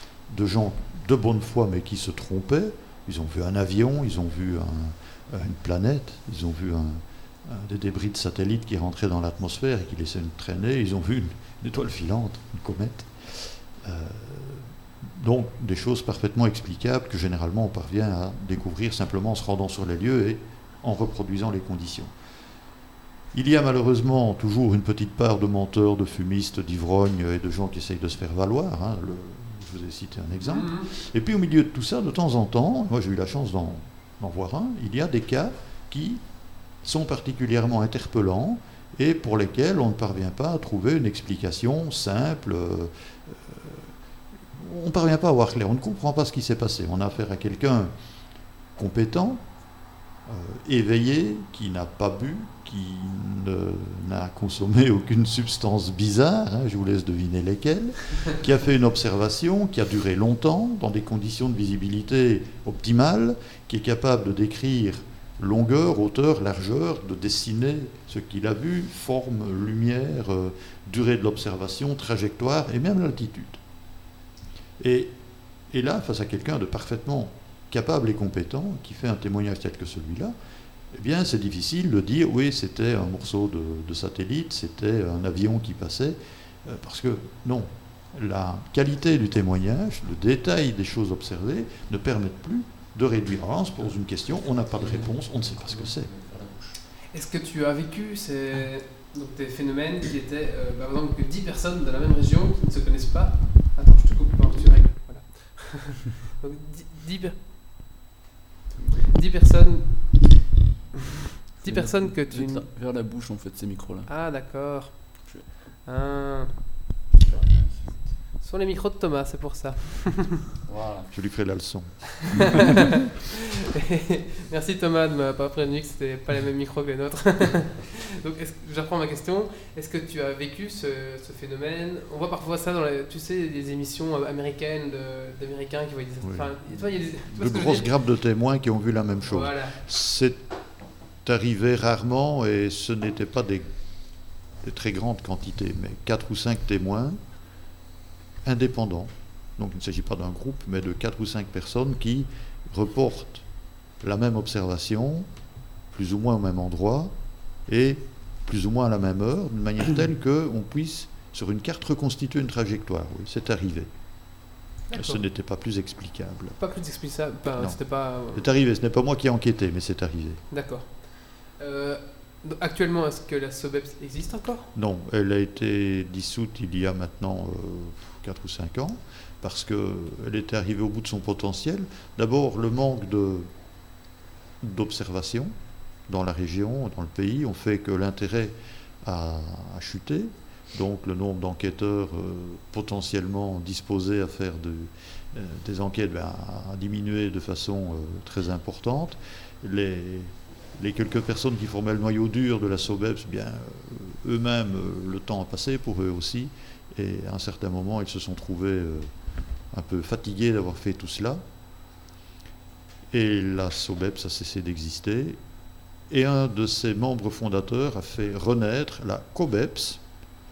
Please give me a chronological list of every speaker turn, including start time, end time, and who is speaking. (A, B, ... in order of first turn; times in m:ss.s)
0:00.2-0:22.1 A
0:23.3-0:43.9 A
0:30.4-0:30.9 B
0:44.6-0:47.9 A
0:48.7-0:49.5 A
0:50.2-1:13.6 A
1:14.8-1:20.4 A
1:20.9-1:36.1 A
1:33.8-1:36.8 C
1:37.1-1:47.4 B
1:49.1-1:50.3 B
1:51.6-1:52.7 B
1:51.6-1:54.1 C
1:54.1-1:56.6 B
1:57.2-1:58.2 C
1:58.4-2:00.4 B
2:00.7-2:01.1 C
2:01.1-2:02.6 A
2:02.6-2:03.3 B
2:03.9-2:17.9 B
2:16.2-2:27.2 A
2:19.2-2:19.8 B
2:28.4-2:35.3 A
2:35.8-2:46.6 A
2:44.9-2:45.2 B
2:46.6-2:48.4 B
2:47.5-2:50.4 A
2:50.5-2:54.7 B
2:54.7-3:03.5 A
3:04.6-3:29.1 A
3:29.7-3:31.4 A
3:33.1-3:35.4 A
3:36.1-3:40.1 A